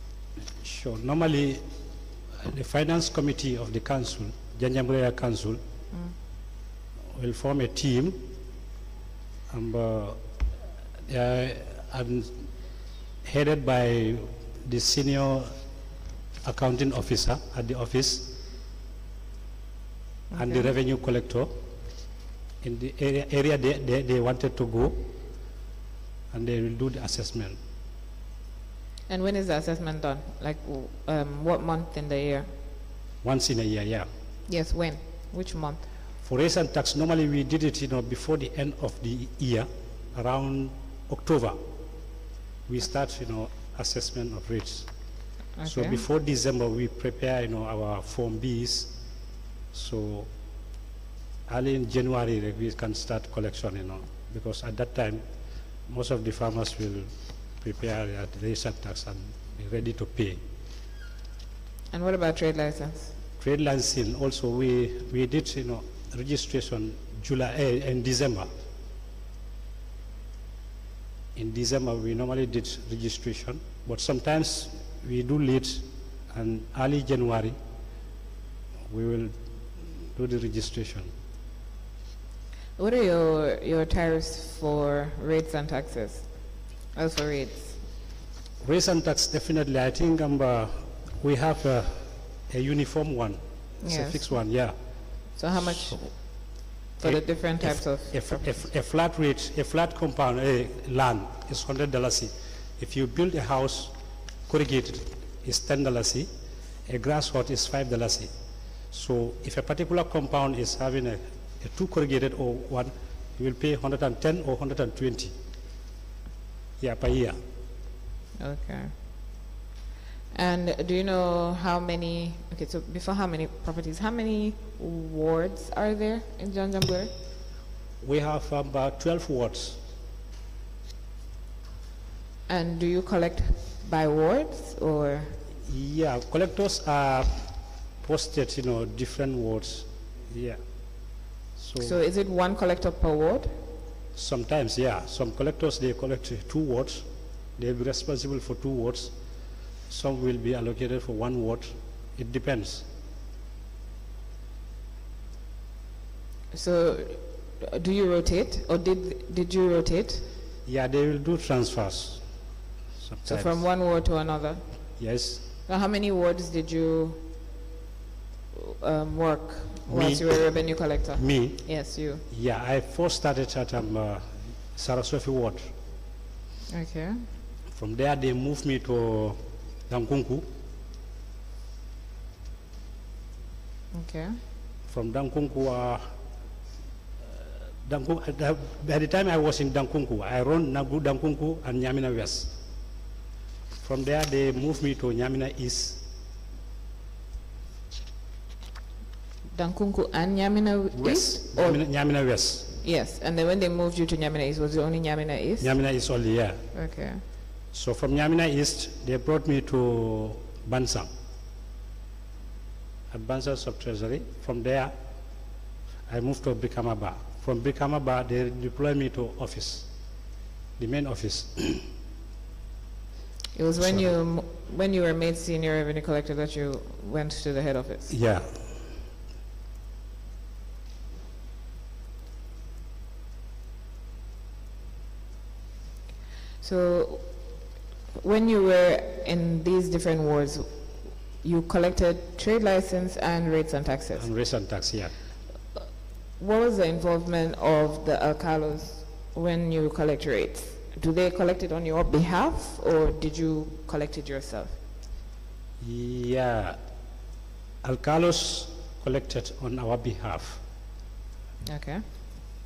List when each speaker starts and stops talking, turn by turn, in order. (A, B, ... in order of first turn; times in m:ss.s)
0:00.6-0:01.7 A
0:02.4-0:05.6 A
0:07.1-0:08.3 A
0:09.5-0:10.2 A
0:11.1-0:12.4 A
0:13.2-0:15.5 A
0:16.4-0:18.4 A
0:20.3-0:20.7 B
0:20.4-0:21.6 A
0:22.6-0:25.1 A
0:26.3-0:27.6 A
0:29.1-0:32.5 B
0:33.2-0:34.1 A
0:34.5-0:35.9 B
0:36.2-0:41.6 A
0:42.7-0:44.9 A
0:45.6-0:46.0 B
0:45.6-0:49.0 A
0:49.7-0:50.3 A
0:51.5-0:55.2 A
0:55.9-1:00.4 A
1:01.9-1:03.1 B
1:03.4-1:08.5 A
1:11.4-1:17.6 A
1:18.9-1:21.1 A
1:22.8-1:27.8 B
1:28.6-1:34.8 A
1:33.8-1:34.3 B
1:35.4-1:38.6 B
1:35.6-1:36.0 A
1:37.0-1:43.9 A
1:44.5-1:46.3 A
1:46.9-1:48.3 A
1:48.9-1:55.4 A
1:56.8-1:57.4 A
1:58.4-1:59.1 B
2:00.3-2:07.1 B
2:08.0-2:09.8 A
2:12.5-2:15.4 B
2:15.6-2:20.6 A
2:21.6-2:22.0 A
2:21.8-2:23.6 B
2:24.2-2:29.1 A
2:29.9-2:32.9 A
2:36.5-2:40.3 B
2:40.7-2:42.2 A
2:43.0-2:43.6 A
2:43.3-2:44.8 B
2:45.0-2:45.4 A
2:45.7-2:47.2 B
2:48.6-2:52.2 B
2:49.9-2:50.4 A
2:51.2-2:51.7 A
2:52.3-2:55.7 A
2:56.7-2:57.3 B
2:57.7-3:00.5 A
3:03.9-3:04.4 B
3:04.9-3:06.1 A
3:07.3-3:12.5 A
3:13.8-3:16.0 A
3:19.5-3:21.8 B
3:21.0-3:22.7 A
3:22.8-3:25.7 B
3:25.6-3:26.6 A
3:26.7-3:27.2 B
3:27.7-3:31.1 A
3:33.1-3:35.0 A
3:36.1-3:39.9 A
3:40.8-3:41.9 A
3:43.6-3:48.1 B
3:43.8-3:44.1 A
3:48.1-3:48.9 A
3:56.6-3:57.3 B
3:58.1-4:04.3 B
4:04.2-4:05.1 A
4:06.4-4:14.8 B
4:15.8-4:16.8 A
4:17.8-4:20.6 A
4:21.7-4:22.0 B